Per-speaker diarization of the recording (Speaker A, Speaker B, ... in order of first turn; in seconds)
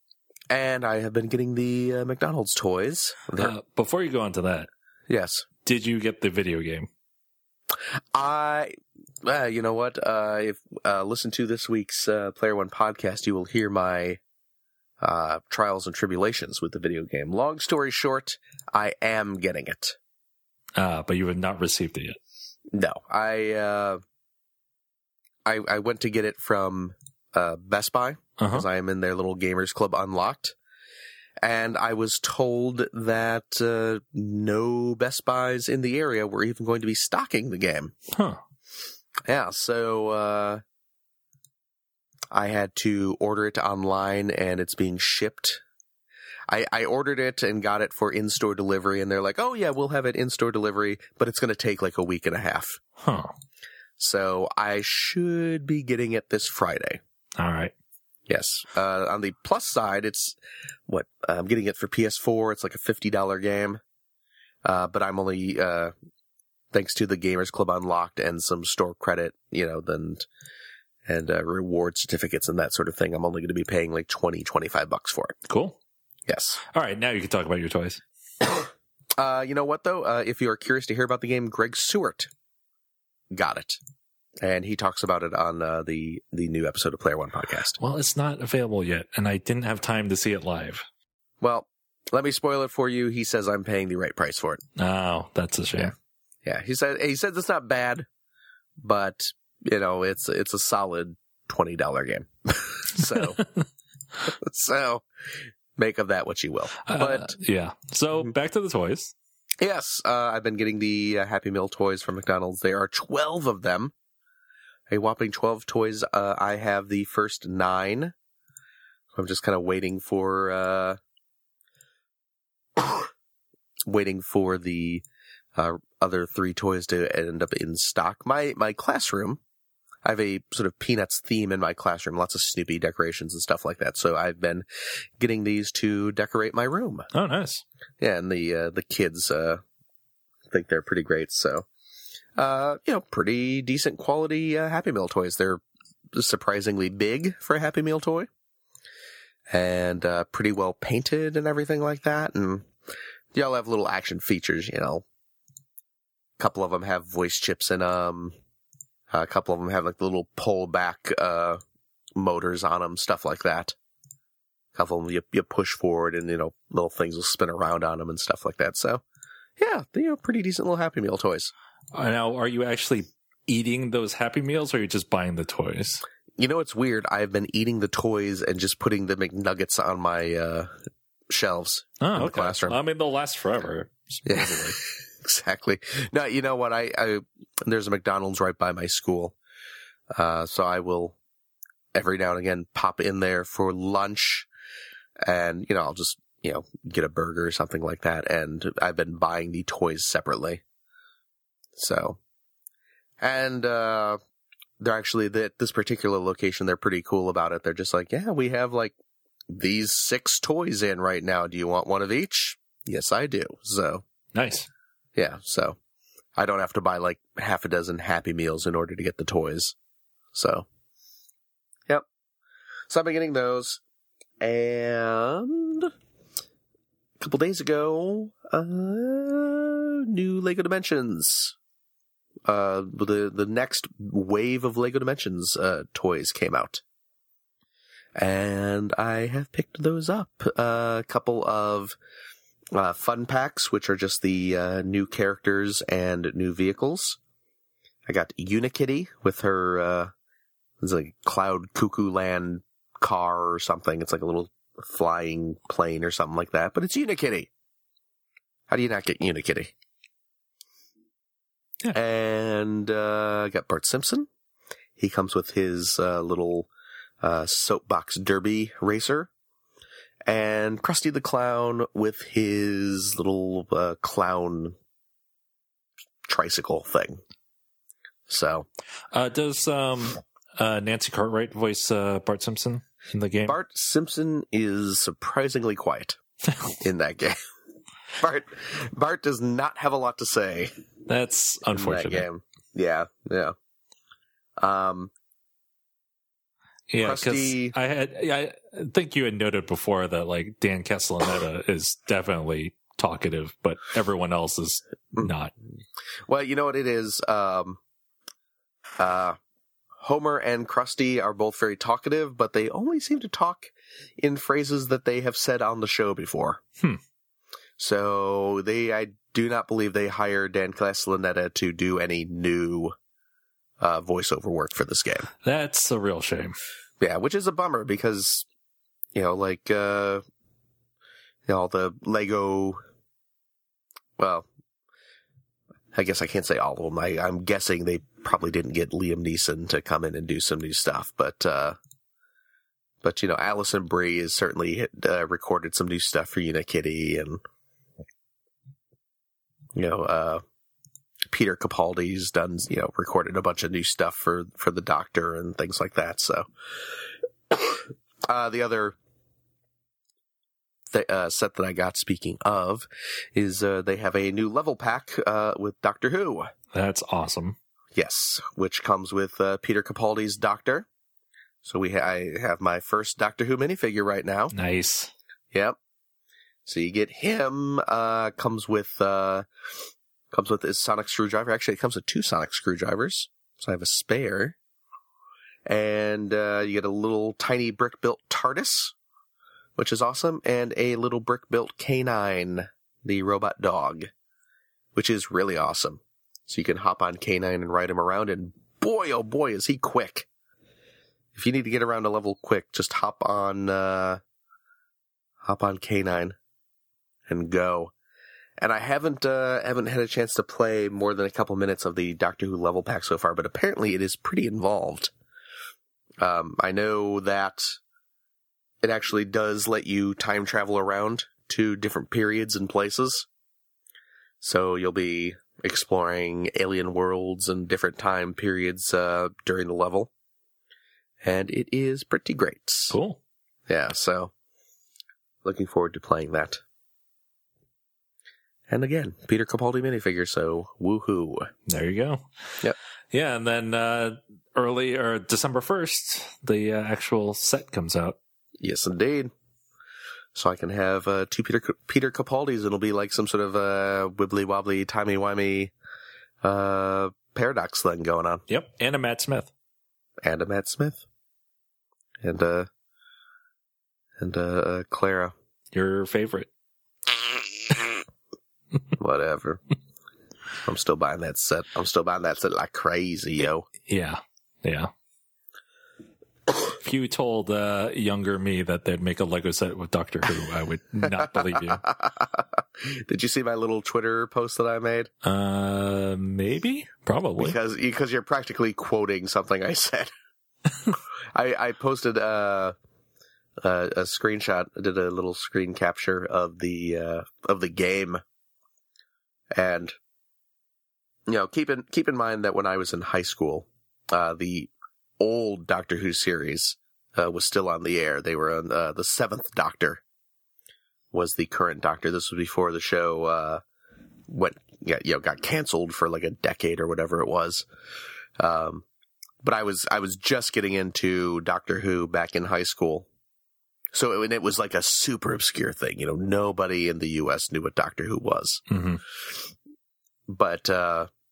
Speaker A: 0.5-3.5, 5.1-5.5, 8.1-8.7, 9.2-14.2, 15.0-19.9, 22.7-24.0, 25.4-30.5, 31.4-37.9, 39.3-40.6, 42.3-45.6, 46.5-52.8, 54.0-57.0, 58.3-60.4, 60.9-63.8, 64.6-65.9, 66.7-70.2, 71.0-75.3, 76.3-76.6, 79.2-82.3, 83.3-83.8, 84.4-87.8, 91.4-94.6, 96.4-98.0, 98.8-103.4, 104.3-105.0, 105.8-107.3, 109.6-113.9, 114.9-118.1, 119.1-121.0, 123.8-125.0, 125.5-129.4, 130.0-134.6, 135.2-137.1, 138.0-139.6, 140.5-141.7, 142.4-145.6, 146.1-148.3, 149.5-152.7, 153.3-155.0, 156.4-158.3, 159.1-161.6, 162.2-163.7, 164.7-169.0, 169.6-171.5, 176.4-180.7, 181.3-182.8, 184.2-189.3, 190.1-191.2, 191.9-194.5, 195.2-200.6, 201.8-202.2, 203.2-204.2, 204.8-208.9, 209.5-214.0, 215.2-215.8, 216.3-219.7, 220.3-220.6, 222.9-223.8, 224.4-225.9, 227.2-231.5, 232.4-236.8, 238.1-241.9, 242.7-247.2, 248.1-250.1, 250.8-257.5, 258.7-259.7, 261.9-264.3, 265.0-266.7, 267.2-269.3, 270.2-274.7, 276.2-277.2, 278.3-278.7, 283.4-286.2, 286.8-287.4, 288.2-290.7, 291.7-293.5, 294.6-295.1, 297.0-297.7, 306.3-307.8, 309.0-309.4, 310.0-316.6, 317.8-322.9, 323.8-325.3, 327.0-328.4, 329.1-330.2, 331.5-332.8, 334.2-334.5, 335.9-341.8, 343.0-347.4, 349.8-350.4, 351.3-356.5, 357.5-358.9, 360.9-366.5, 367.9-370.9, 371.6-374.5, 376.6-379.4, 380.3-384.6, 385.6-388.9, 389.8-394.1, 394.9-400.3, 401.3-404.2, 405.4-406.4, 407.3-407.9, 408.6-415.1, 416.2-417.8, 418.8-423.3, 424.4-430.1, 431.2-432.9, 433.7-434.3, 435.4-436.6, 438.7-441.5, 448.6-449.3, 450.3-455.7, 456.4-458.4, 460.2-461.0, 462.2-462.7, 464.2-465.3, 469.0-469.6, 470.6-473.7, 481.2-485.1, 487.4-490.1, 491.3-492.7, 493.6-498.2, 499.5-499.9, 501.3-510.0, 511.1-513.6, 514.3-517.7, 518.4-518.8, 519.4-523.1, 523.9-528.6, 530.3-531.1
Speaker B: 3.4-4.7, 5.6-6.9, 20.8-22.2, 28.4-28.7, 38.1-38.4, 53.0-53.3, 57.4-57.7, 75.5-75.8, 76.7-78.0, 87.8-90.8, 94.8-95.9, 106.8-109.1, 137.1-137.6, 171.9-176.0, 182.0-184.8, 214.3-214.7, 279.1-283.6, 291.1-292.3, 296.9-305.5, 325.4-326.5, 366.7-367.6, 374.5-375.1, 432.9-433.2, 441.7-442.3, 443.1-448.2, 458.5-459.5, 465.7-466.5, 473.9-474.9, 476.8-481.8, 485.2-487.6, 528.7-529.0